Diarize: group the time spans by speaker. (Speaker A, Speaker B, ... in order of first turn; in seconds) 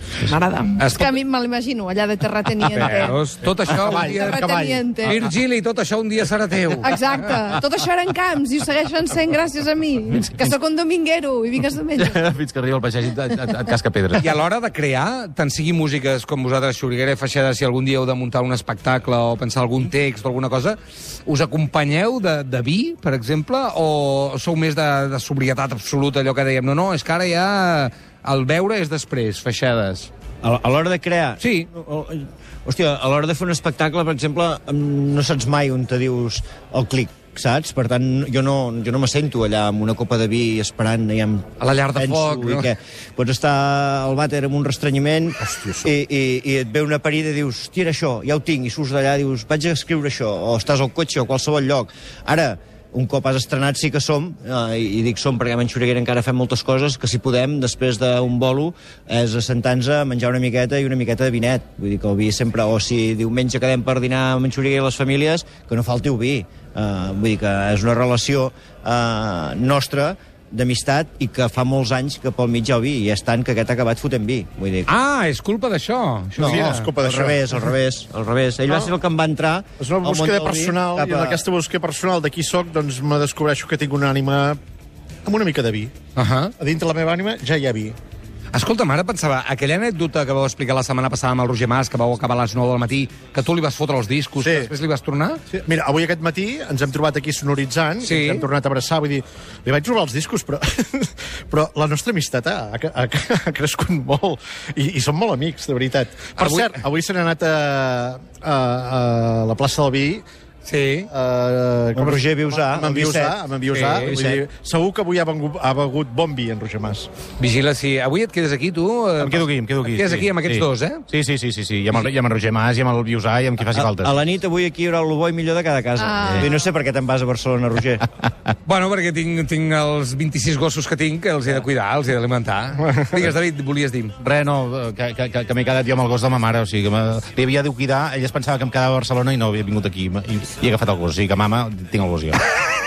Speaker A: 0.2-3.1, 4.2-5.1, 6.8-12.2, 126.0-126.3
Speaker B: 0.8-1.2, 2.6-4.5, 5.0-7.2, 14.2-30.1, 31.4-31.7, 41.6-42.7, 74.9-76.9, 86.2-86.5, 88.5-95.4, 98.0-98.5, 106.4-106.8, 110.7-111.1, 113.7-114.3, 117.4-121.0, 128.7-134.2
Speaker C: 3.4-5.2, 45.4-45.9, 76.4-77.7, 78.7-79.0, 79.8-84.6, 85.2-85.9, 86.6-88.0, 94.4-94.7, 95.5-110.2, 111.1-117.1
Speaker D: 12.0-14.3, 119.2-124.2, 126.2-126.5, 134.2-142.4
Speaker E: 30.4-74.9, 76.4-81.4, 111.9-113.4, 123.7-128.1